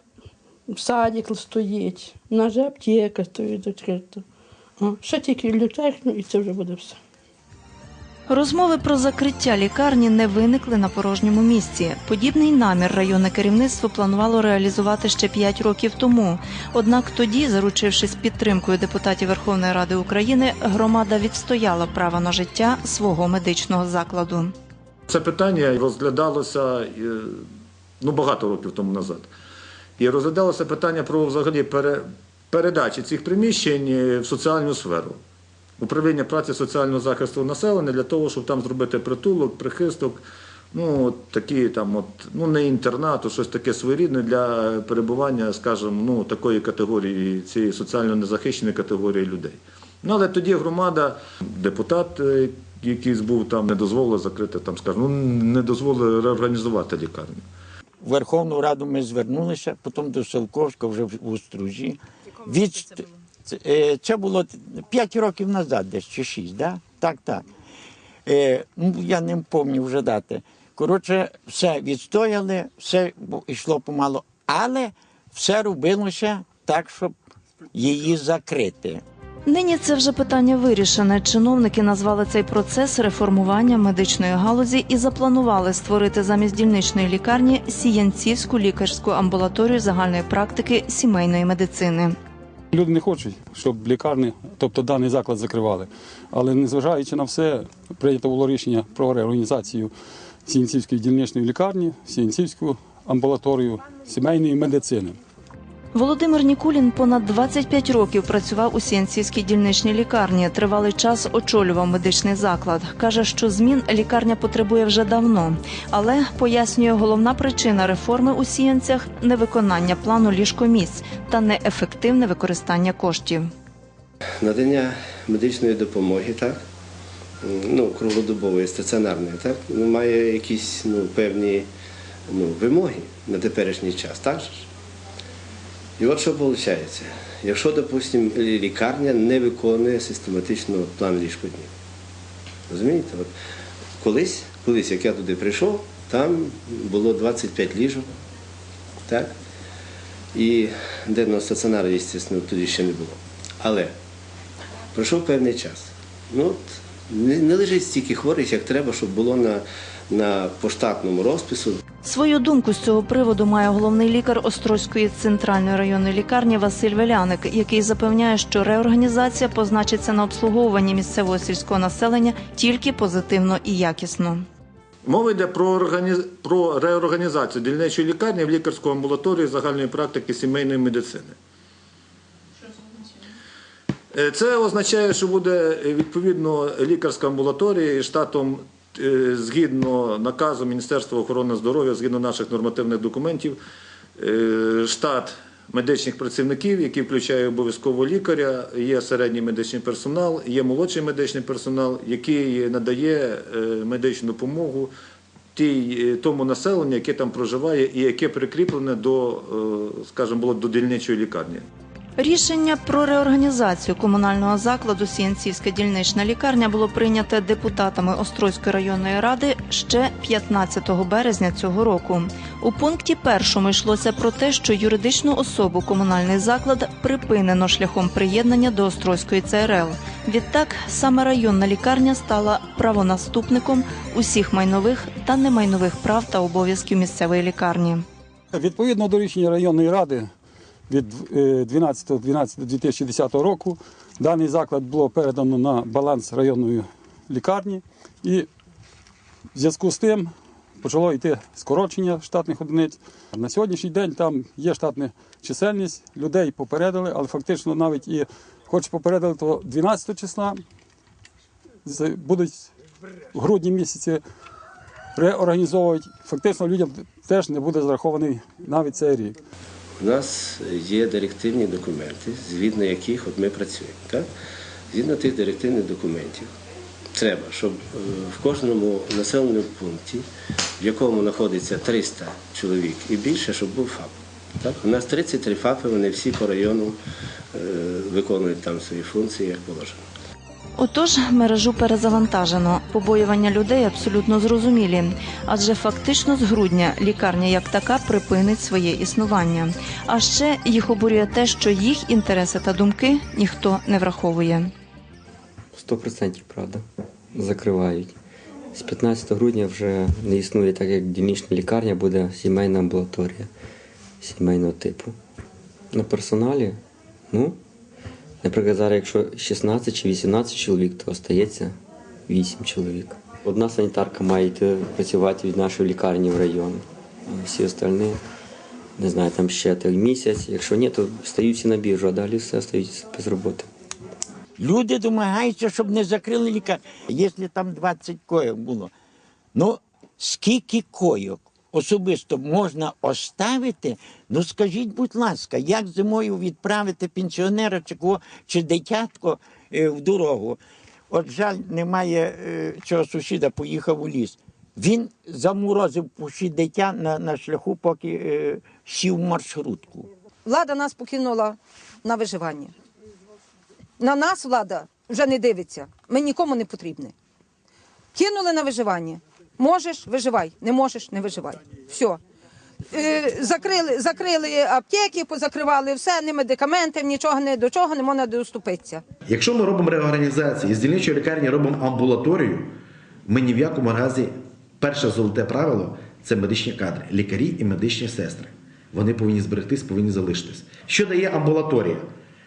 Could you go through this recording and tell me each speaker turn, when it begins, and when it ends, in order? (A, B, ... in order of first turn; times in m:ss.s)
0:00.7-0:04.2 A
0:04.8-0:07.0 A
0:08.3-0:24.5 B
0:25.1-0:27.5 C
0:28.0-0:29.3 C
0:30.0-0:35.2 C
0:35.8-0:57.4 C
0:58.0-1:07.4 D
1:08.3-1:17.2 D
1:17.7-1:19.0 D
1:19.5-1:32.2 B
1:32.7-1:39.9 E
1:40.5-1:45.2 E
1:45.9-2:03.5 B
2:04.4-2:06.6 F
2:07.4-2:11.7 F
2:12.3-2:14.7 F
2:16.0-2:21.7 F
2:22.7-2:23.3 F
2:24.0-2:28.1 F
2:29.1-2:29.3 F
2:30.3-2:33.9 F
2:34.9-2:41.8 F
2:42.0-2:54.5 B
2:55.0-3:01.4 C
3:04.1-3:13.6 C
3:14.2-3:24.9 C
3:25.6-3:31.6 C
3:32.2-3:58.0 B
3:58.5-4:00.3 E
4:00.9-4:08.5 E
4:09.6-4:20.6 E
4:21.8-4:22.7 E
4:23.3-4:24.2 E
4:25.2-4:29.4 E
4:30.0-4:34.3 F
4:34.9-4:36.5 F
4:37.1-4:40.2 F
4:40.8-4:47.0 F
4:47.5-4:50.0 F
4:50.8-5:04.7 B
5:05.7-5:08.1 G
5:08.7-5:13.5 G
5:14.2-5:15.2 G
5:15.9-5:16.8 G
5:17.3-5:17.6 G
5:18.4-5:21.8 G
5:22.3-5:28.2 G
5:29.0-5:33.7 G
5:34.6-5:38.9 D
5:39.6-5:50.6 D
5:51.1-6:00.1 D
6:00.5-6:02.7 H
6:04.0-6:07.1 H
6:08.1-6:12.2 H
6:12.9-6:19.0 H
6:19.3-6:32.1 I